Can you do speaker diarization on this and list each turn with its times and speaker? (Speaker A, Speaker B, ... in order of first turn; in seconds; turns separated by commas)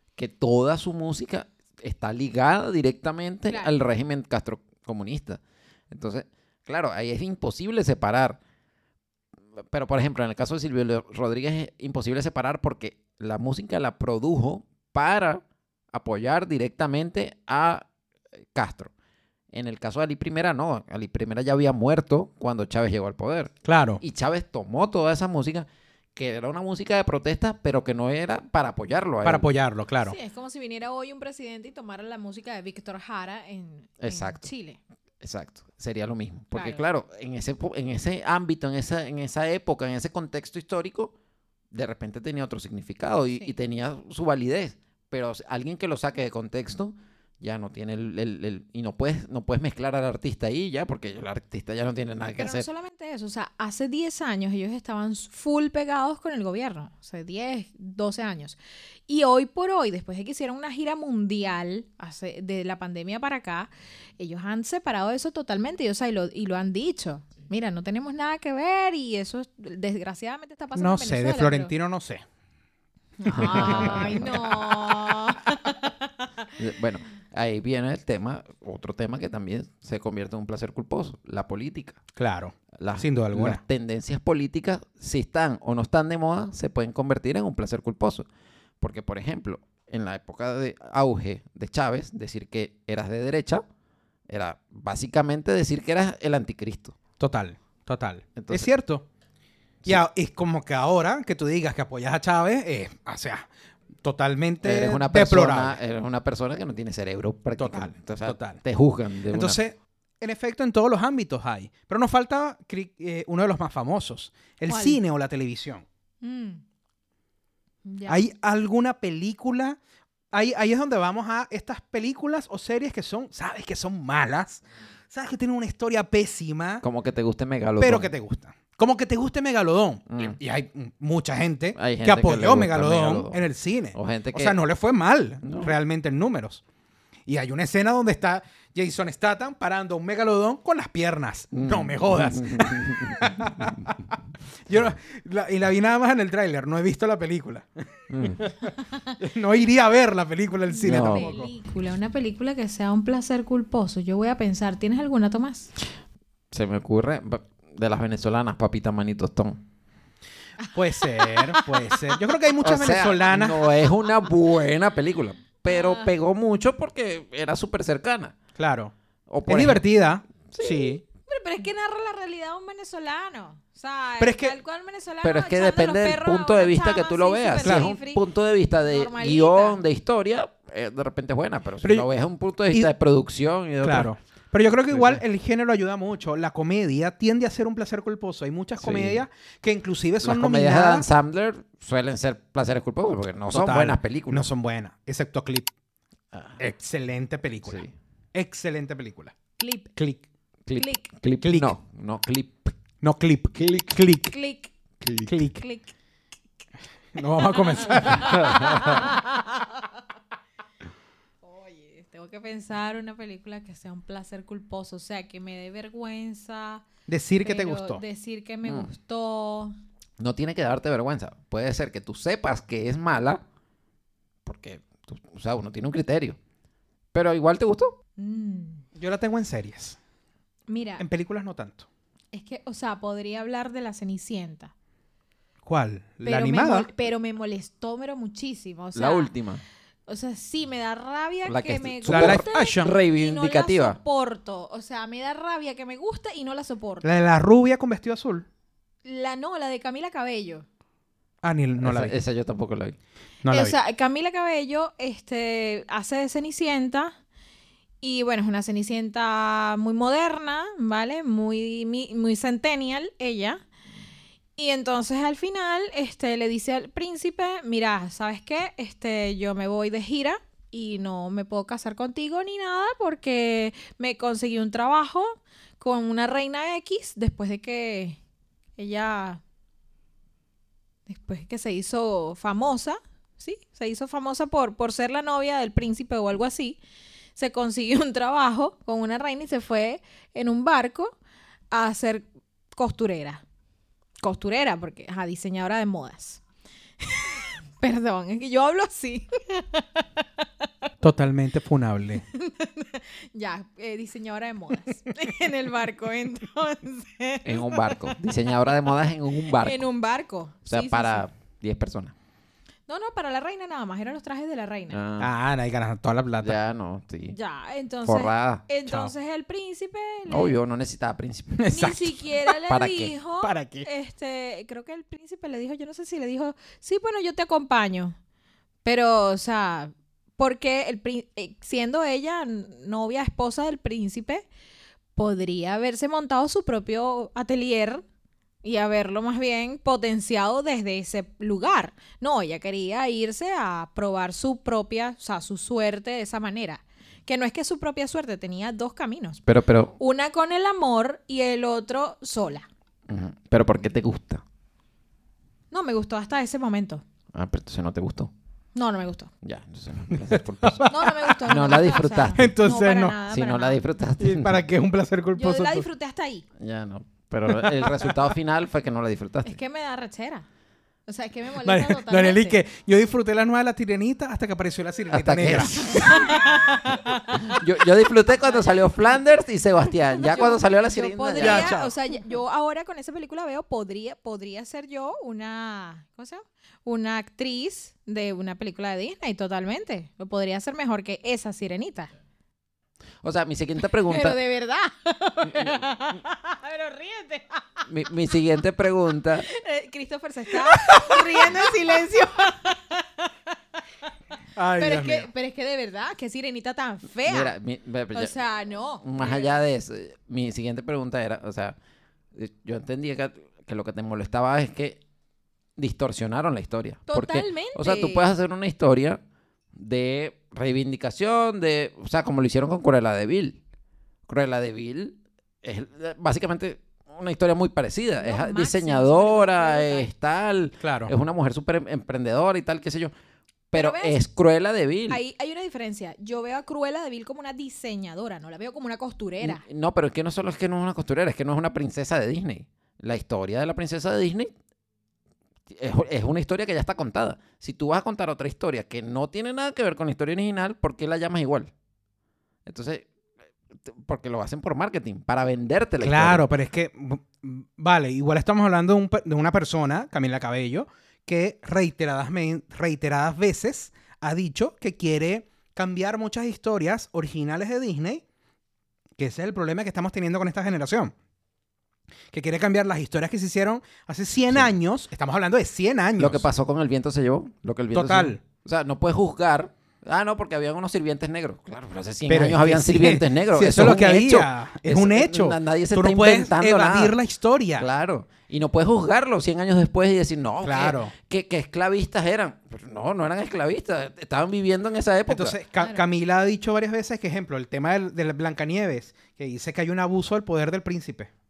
Speaker A: 0.2-8.4, Speaker A: 9.6-18.9, Speaker A: 19.5-29.4, Speaker B: 23.6-24.0, Speaker B: 29.2-30.1, Speaker C: 30.0-34.8, Speaker A: 34.0-34.4, Speaker A: 35.2-41.1, Speaker C: 36.5-36.8, Speaker A: 41.7-52.7, Speaker C: 52.4-71.7, Speaker B: 70.8-72.2, Speaker C: 73.2-76.5, Speaker A: 73.3-74.4, Speaker B: 73.4-74.3, Speaker A: 76.6-82.0, Speaker B: 82.2-83.6, Speaker A: 82.7-88.2, Speaker A: 88.8-93.6, Speaker A: 94.3-97.0, Speaker B: 97.2-99.0, Speaker A: 98.3-98.7, Speaker B: 99.8-103.5, Speaker B: 104.0-105.8, Speaker A: 104.6-109.6, Speaker B: 107.6-108.6, Speaker B: 109.3-115.8, Speaker C: 114.7-115.0, Speaker C: 116.2-116.6, Speaker C: 117.8-118.2, Speaker B: 118.0-119.8, Speaker B: 120.3-126.8, Speaker A: 126.8-128.1, Speaker B: 127.8-136.6, Speaker A: 130.1-130.4, Speaker A: 131.7-133.4, Speaker A: 133.9-134.6, Speaker A: 135.4-135.7, Speaker B: 137.3-144.1, Speaker A: 141.5-143.8, Speaker B: 144.7-147.7, Speaker A: 148.1-148.5, Speaker B: 148.2-151.5, Speaker C: 150.7-155.7, Speaker A: 150.8-151.3, Speaker A: 156.5-159.6, Speaker C: 160.7-162.3, Speaker B: 160.7-163.7, Speaker A: 162.6-168.3, Speaker C: 165.7-166.1, Speaker B: 168.6-168.9, Speaker A: 169.3-169.8, Speaker B: 169.4-171.0, Speaker A: 170.5-170.9, Speaker C: 170.6-178.2, Speaker B: 174.2-174.5, Speaker A: 175.2-184.1, Speaker B: 177.6-177.9, Speaker C: 178.8-179.8, Speaker B: 181.8-182.1, Speaker B: 183.8-191.1, Speaker A: 184.9-185.2, Speaker A: 188.8-189.2, Speaker A: 190.2-194.5, Speaker B: 193.5-195.7, Speaker A: 196.3-196.6, Speaker B: 196.6-197.8, Speaker A: 197.6-197.9, Speaker B: 198.3-199.3, Speaker C: 199.6-199.9, Speaker B: 199.9-200.2, Speaker A: 200.7-202.7, Speaker C: 200.7-201.0, Speaker B: 201.4-201.7, Speaker B: 203.0-204.3, Speaker C: 204.3-204.7, Speaker A: 205.0-205.3, Speaker B: 205.2-205.6, Speaker C: 205.5-205.9, Speaker B: 207.1-209.0, Speaker C: 207.3-209.9, Speaker A: 208.2-208.8, Speaker C: 211.4-216.8, Speaker B: 217.1-218.0, Speaker C: 217.4-219.7, Speaker A: 220.2-223.4, Speaker A: 224.4-226.4, Speaker A: 227.1-227.9, Speaker C: 228.2-228.8, Speaker B: 228.9-230.0, Speaker C: 230.7-231.0, Speaker B: 231.0-231.9, Speaker C: 232.3-234.7, Speaker B: 235.7-236.9, Speaker C: 236.2-239.3, Speaker A: 238.9-239.6, Speaker C: 240.1-247.0, Speaker A: 241.4-244.0, Speaker B: 242.1-242.9, Speaker B: 247.0-248.5, Speaker C: 249.0-250.7, Speaker B: 251.4-252.1, Speaker A: 251.8-253.0, Speaker B: 253.4-253.8, Speaker C: 253.5-257.1, Speaker C: 258.0-263.6, Speaker C: 264.6-278.2, Speaker C: 278.8-279.4, Speaker C: 281.1-286.8, Speaker C: 287.4-291.2, Speaker C: 291.7-293.4, Speaker C: 294.2-296.4, Speaker C: 297.0-300.4, Speaker B: 301.0-302.2, Speaker C: 302.3-308.2, Speaker A: 307.4-309.8, Speaker C: 309.4-311.3, Speaker A: 310.6-312.1, Speaker C: 312.9-315.0, Speaker A: 314.9-315.3, Speaker B: 315.2-316.6, Speaker A: 316.4-317.4, Speaker C: 317.3-320.6, Speaker A: 318.0-318.7, Speaker A: 320.3-322.0, Speaker B: 321.6-322.0, Speaker C: 321.7-328.1, Speaker A: 322.6-323.1, Speaker B: 323.4-323.9, Speaker C: 328.8-334.5, Speaker C: 335.1-338.0, Speaker C: 338.6-349.4, Speaker A: 349.4-349.9, Speaker C: 350.0-352.7, Speaker A: 353.1-354.4, Speaker C: 355.7-357.0, Speaker A: 357.3-358.3, Speaker C: 358.7-359.3, Speaker A: 359.4-362.5, Speaker B: 360.1-361.3, Speaker C: 360.9-363.8, Speaker B: 362.3-363.2, Speaker A: 363.3-364.6, Speaker B: 364.2-365.9, Speaker C: 365.4-366.4, Speaker A: 366.6-369.6, Speaker B: 367.6-368.1, Speaker C: 369.4-370.4, Speaker C: 371.1-372.6, Speaker B: 371.6-377.2, Speaker A: 375.1-376.3, Speaker C: 376.1-376.7, Speaker A: 377.3-381.8, Speaker C: 378.4-378.9, Speaker C: 380.2-392.1, Speaker B: 381.4-381.9, Speaker A: 393.2-394.4, Speaker C: 394.1-397.9, Speaker A: 395.4-396.2, Speaker A: 397.9-399.5, Speaker C: 399.4-403.3, Speaker B: 404.5-405.3, Speaker C: 404.8-407.5, Speaker A: 407.2-408.3, Speaker C: 408.1-409.5, Speaker A: 409.0-411.8, Speaker A: 412.3-415.0, Speaker A: 415.8-419.2, Speaker C: 417.1-418.3, Speaker A: 419.7-423.6, Speaker A: 424.3-433.1, Speaker C: 428.2-430.1, Speaker B: 430.8-431.1, Speaker A: 433.7-435.2, Speaker C: 433.7-434.2, Speaker C: 435.1-439.6, Speaker A: 439.4-444.5, Speaker A: 445.7-451.7, Speaker A: 452.6-453.1, Speaker A: 453.7-456.4, Speaker B: 456.0-468.2, Speaker B: 469.2-471.1, Speaker B: 472.3-476.5, Speaker A: 476.2-487.2, Speaker B: 477.9-478.4, Speaker B: 482.3-487.9, Speaker A: 487.8-495.6, Speaker B: 490.6-491.1, Speaker B: 495.3-501.3